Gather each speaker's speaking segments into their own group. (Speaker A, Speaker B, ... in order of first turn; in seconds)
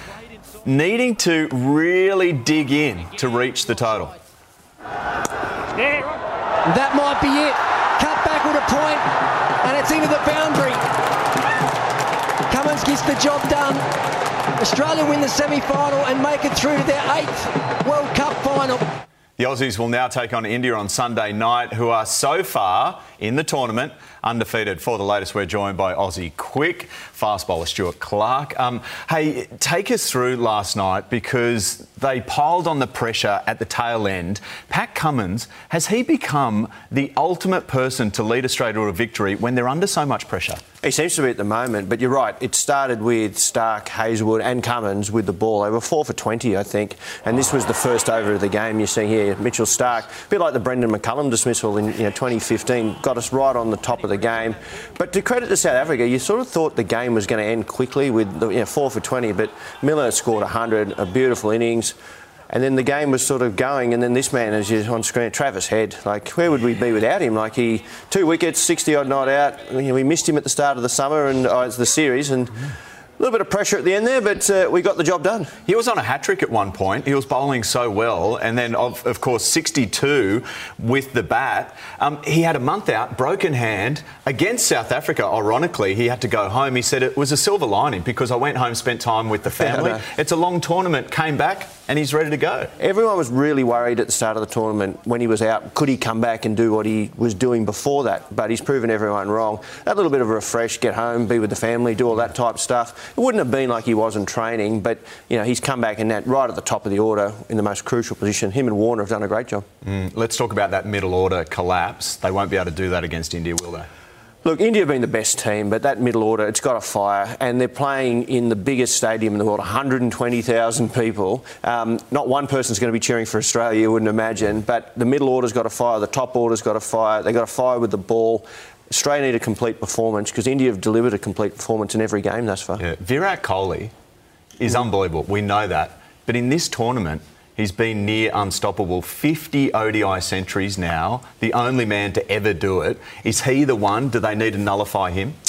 Speaker A: 0.6-4.1, 19.4-40.6, 75.6-92.7, 109.8-113.9, 132.8-133.9, 134.6-145.3
Speaker B: 6.7-9.1, 9.6-10.8, 12.5-13.8, 14.6-18.8
Speaker C: 40.8-62.0, 62.5-72.7, 73.2-75.5, 89.6-90.0, 92.8-109.6, 114.4-132.8